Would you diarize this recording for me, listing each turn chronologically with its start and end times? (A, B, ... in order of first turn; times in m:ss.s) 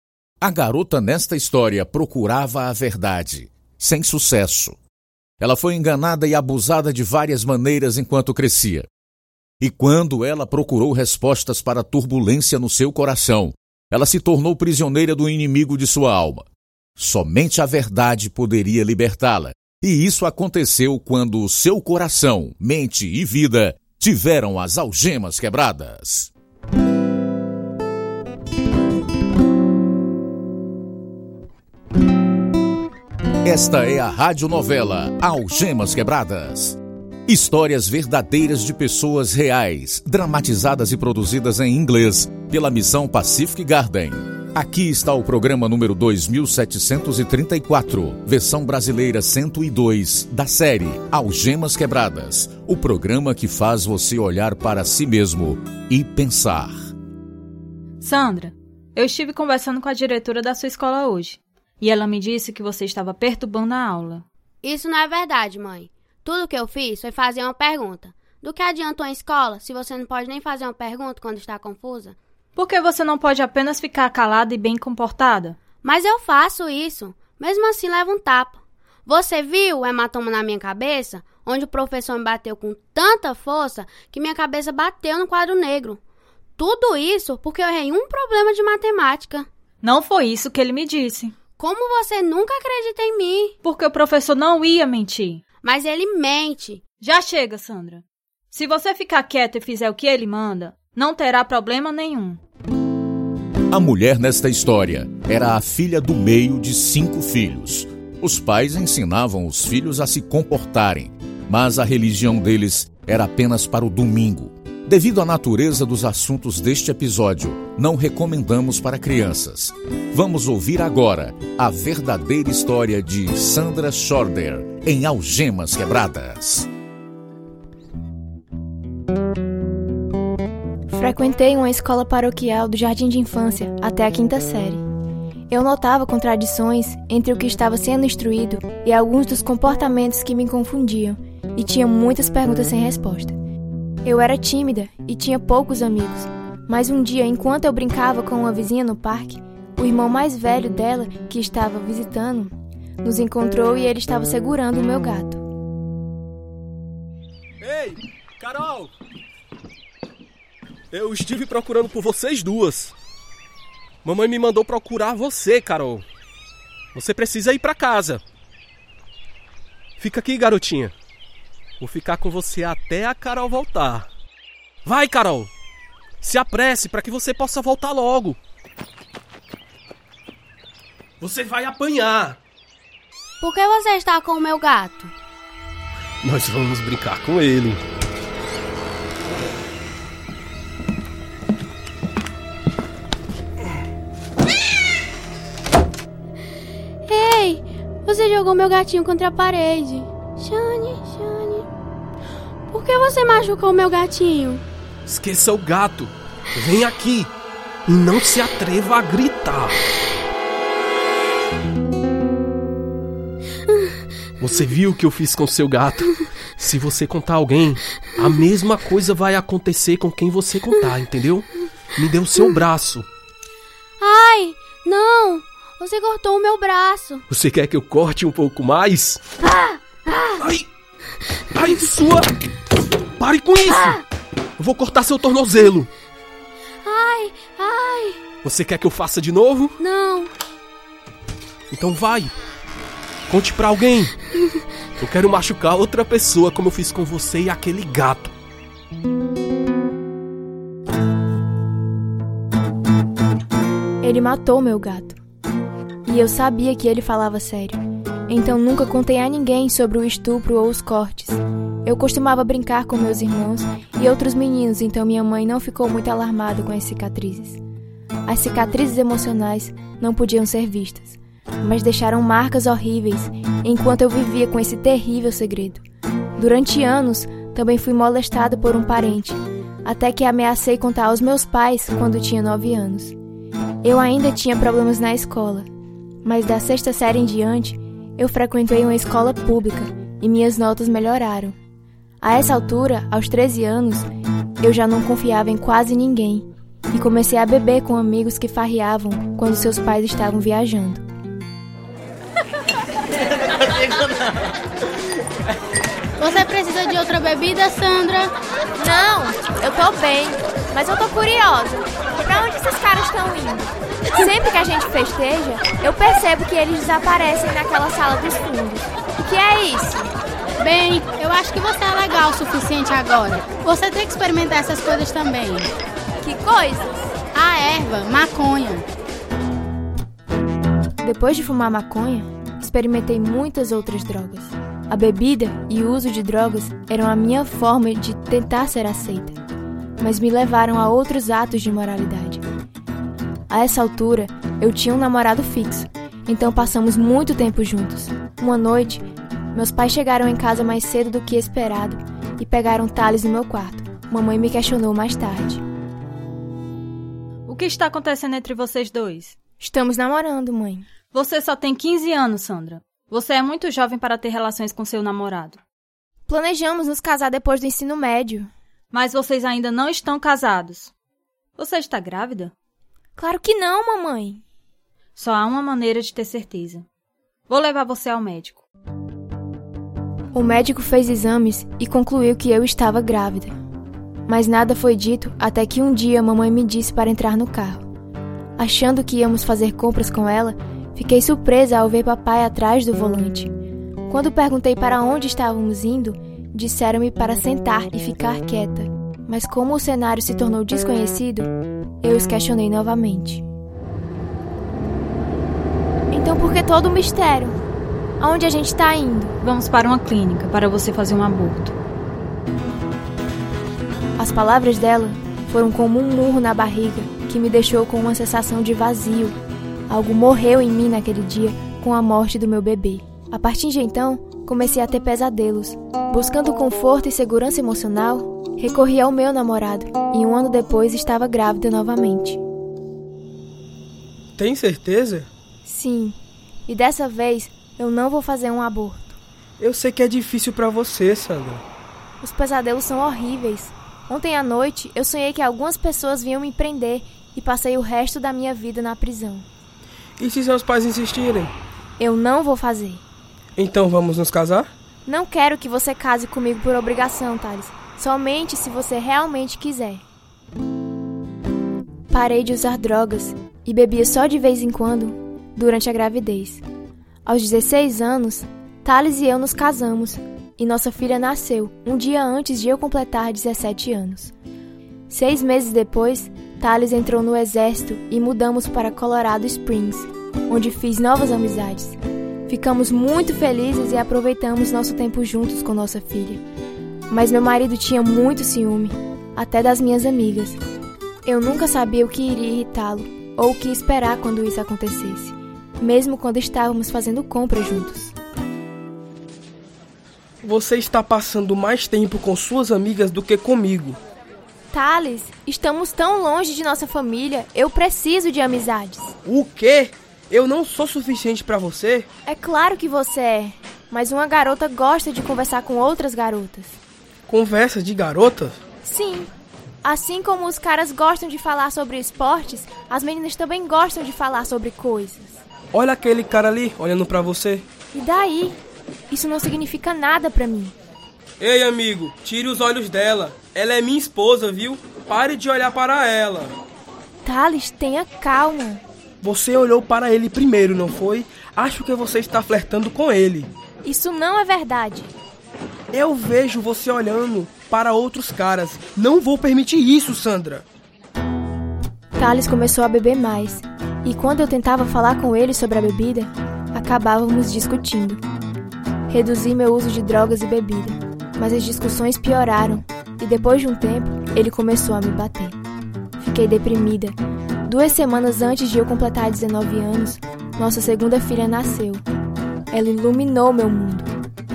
0:00.4-0:04.8 A
0:05.4-0:08.9 A
0:09.6-0:16.4 A
0:17.0-0:26.3 A
0:33.4-0:56.8 A
0:58.0-1:04.2 B
1:04.6-1:12.2 C
1:12.6-1:15.6 B
1:15.8-1:26.0 C
1:26.6-1:29.5 C
1:29.8-1:31.3 B
1:31.6-1:33.6 C
1:33.6-1:35.4 B
1:35.6-1:36.8 C
1:37.0-1:42.4 B
1:43.7-2:06.7 A
2:10.9-2:14.8 D
2:15.5-2:23.4 D
2:24.0-2:35.4 D
2:37.6-2:38.9 E
2:40.9-2:42.9 E
2:44.0-2:46.0 E
2:46.9-2:48.2 E
2:50.0-2:50.9 E
2:51.8-2:54.1 E
2:54.8-2:55.5 E
2:56.2-2:58.4 E
3:01.2-3:02.4 E
3:03.4-3:05.1 C
3:06.2-3:07.8 E
3:17.0-3:21.7 C
3:22.7-3:24.6 C
3:25.0-3:27.3 E
3:27.8-3:29.8 E
3:34.4-3:43.1 E
3:44.0-3:47.2 C
3:47.3-3:49.2 E
3:50.4-3:50.7 E
3:51.5-3:52.3 E
3:53.2-3:54.0 E
3:54.6-3:55.9 E
3:56.8-3:58.2 C
3:58.4-3:59.8 E
3:59.8-4:00.3 C
4:01.7-4:02.3 E
4:03.3-4:04.1 E
4:05.0-4:08.3 E
4:14.0-4:15.2 D
4:16.0-4:27.6 D
4:28.2-4:35.8 D
4:36.4-4:43.2 D
4:43.8-4:45.7 D
4:46.2-4:51.6 D
4:52.2-4:54.1 D
4:54.6-5:01.0 D
5:06.2-5:08.3 F
5:08.8-5:20.1 D
5:20.6-5:25.7 F
5:26.2-5:27.1 D
5:27.3-5:28.8 F
5:31.0-5:39.4 D
5:40.0-5:42.4 D
5:43.5-5:55.6 D
5:57.5-5:59.3 B
5:59.6-6:00.9 D
6:01.1-6:05.6 B
6:06.3-6:08.5 D
6:08.9-6:10.9 B
6:11.6-6:12.5 B
6:13.2-6:14.4 D
6:15.2-6:16.8 B
6:17.5-6:18.6 B
6:20.3-6:23.5 D
6:24.3-6:27.8 D
6:28.6-6:33.5 D
6:34.1-6:41.5 D
6:42.0-6:43.4 D
6:46.1-6:47.6 D
6:48.2-6:49.4 D
6:49.4-6:51.7 B
6:54.2-6:59.4 D
6:59.9-7:12.4 D
7:14.4-7:15.3 G
7:15.6-7:16.2 D
7:16.7-7:19.2 D
7:19.6-7:21.6 G
7:22.2-7:29.4 D
7:30.2-7:31.5 G
7:32.0-7:33.0 D
7:33.6-7:34.7 G
7:35.0-7:40.0 D
7:42.1-7:46.6 D
7:47.2-7:54.3 D
7:55.1-8:02.0 D
8:02.5-8:06.4 D
8:07.1-8:10.6 D
8:11.2-8:18.1 D
8:20.4-8:24.0 G
8:24.7-8:29.1 D
8:29.2-8:32.1 G
8:32.2-8:36.8 D
8:37.3-8:38.6 G
8:38.8-8:39.3 D
8:39.8-8:45.4 D
8:45.7-8:47.6 G
8:47.9-8:48.6 D
8:49.1-8:50.7 D
8:51.4-8:56.5 G
8:57.2-8:58.8 D
8:59.2-9:03.5 G
9:03.8-9:05.1 D
9:05.9-9:10.6 G
9:12.2-9:18.2 D
9:19.1-9:25.6 D
9:26.2-9:32.0 D
9:32.7-9:34.1 D